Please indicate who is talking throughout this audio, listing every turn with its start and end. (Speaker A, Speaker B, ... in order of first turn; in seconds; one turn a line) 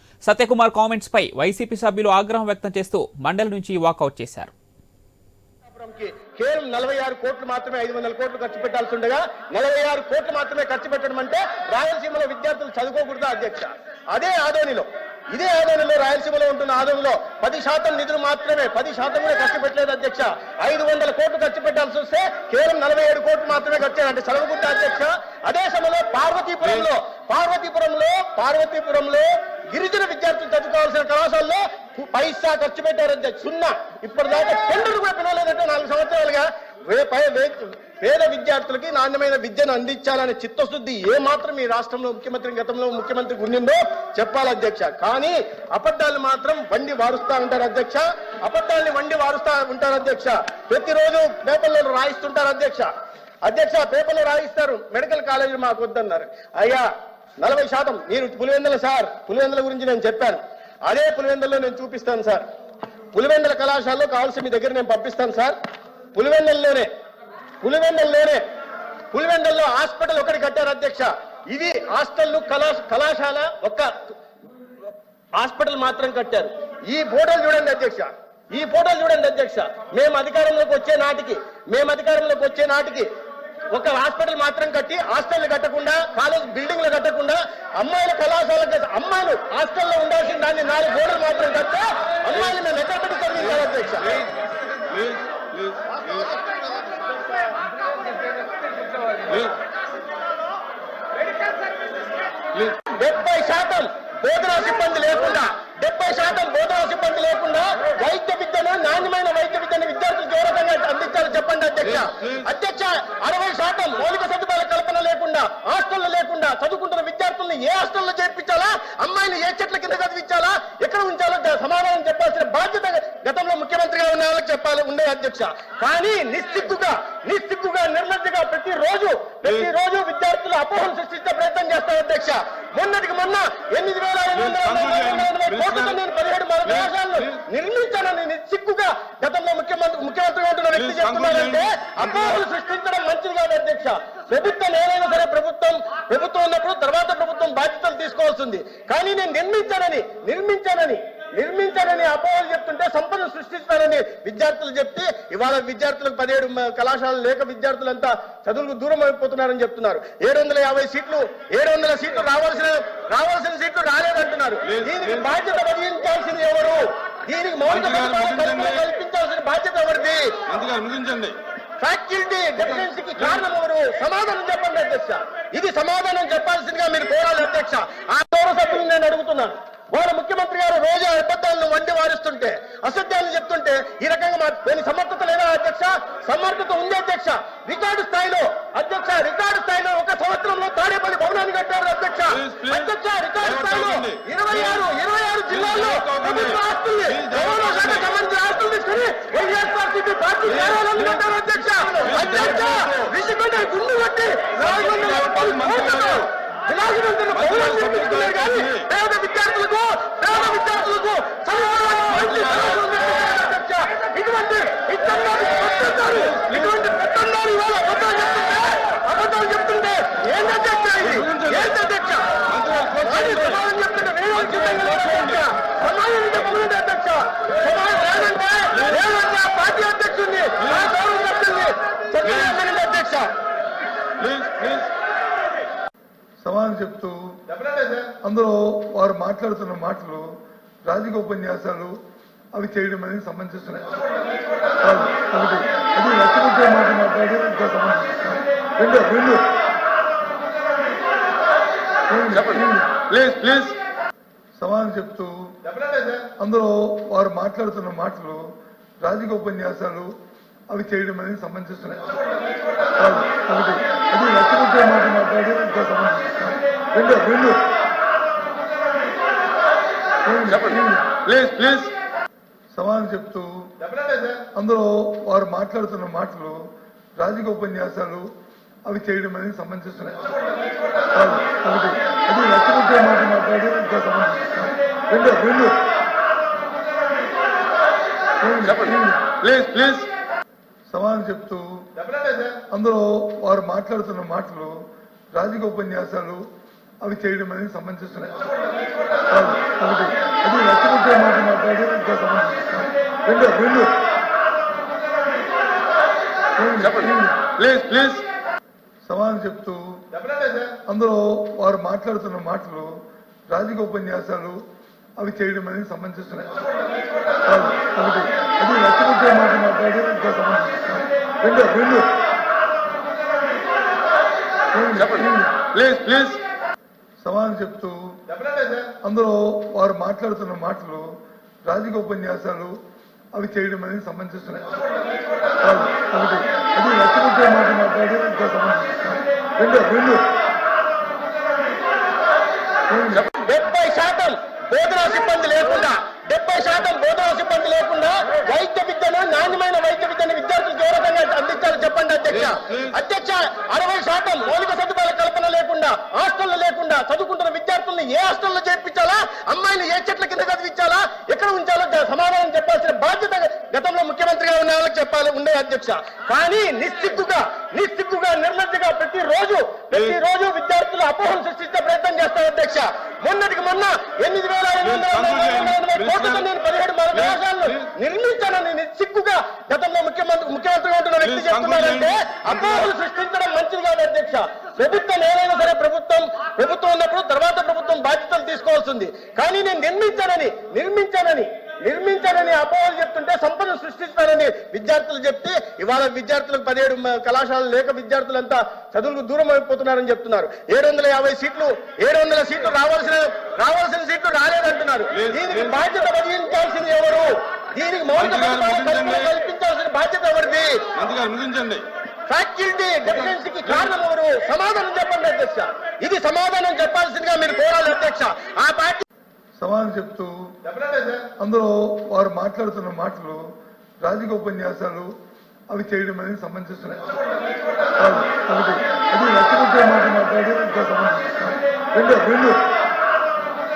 Speaker A: 0.3-4.5
Speaker B: 5.7-52.9
Speaker B: 53.5-56.8
Speaker B: 57.4-62.4
Speaker B: 63.1-65.5
Speaker B: 66.1-66.9
Speaker B: 67.6-68.4
Speaker B: 69.1-73.9
Speaker B: 75.4-83.1
Speaker B: 83.7-94.2
Speaker C: 94.9-96.0
Speaker B: 102.8-170.4
Speaker C: 170.5-171.4
Speaker B: 171.8-222.4
Speaker C: 193.7-194.0
Speaker C: 195.7-196.4
Speaker C: 197.3-197.8
Speaker C: 202.2-202.7
Speaker C: 204.9-205.4
Speaker C: 207.8-208.5
Speaker C: 222.6-223.1
Speaker B: 222.9-233.3
Speaker C: 234.2-234.9
Speaker D: 236.4-237.3
Speaker D: 238.2-240.3
Speaker D: 240.9-242.0
Speaker D: 242.5-243.9
Speaker D: 244.8-249.4
Speaker D: 252.1-252.9
Speaker C: 253.0-253.7
Speaker D: 254.6-255.5
Speaker D: 256.1-258.4
Speaker D: 259.0-260.1
Speaker D: 260.7-262.1
Speaker D: 263.0-267.6
Speaker D: 270.3-271.0
Speaker C: 270.5-271.9
Speaker D: 272.7-276.6
Speaker D: 277.2-278.3
Speaker D: 278.9-280.2
Speaker D: 281.1-285.8
Speaker D: 288.4-289.2
Speaker C: 288.7-290.1
Speaker D: 290.9-294.8
Speaker D: 295.4-296.4
Speaker D: 297.0-298.4
Speaker D: 299.3-303.9
Speaker D: 306.6-307.4
Speaker C: 306.8-308.2
Speaker D: 309.1-312.9
Speaker D: 313.5-314.6
Speaker D: 315.2-316.5
Speaker D: 317.5-322.1
Speaker D: 324.7-325.5
Speaker C: 325.1-326.4
Speaker D: 327.2-328.1
Speaker D: 328.7-331.1
Speaker D: 331.7-332.8
Speaker D: 333.4-334.8
Speaker D: 335.6-340.2
Speaker D: 342.9-343.2
Speaker B: 343.1-410.9
Speaker C: 381.5-381.8
Speaker C: 408.5-409.0
Speaker C: 411.0-411.9
Speaker B: 412.3-419.1
Speaker D: 419.6-420.5
Speaker D: 421.1-423.4
Speaker D: 424.0-425.1
Speaker D: 425.7-427.1
Speaker D: 428.0-432.6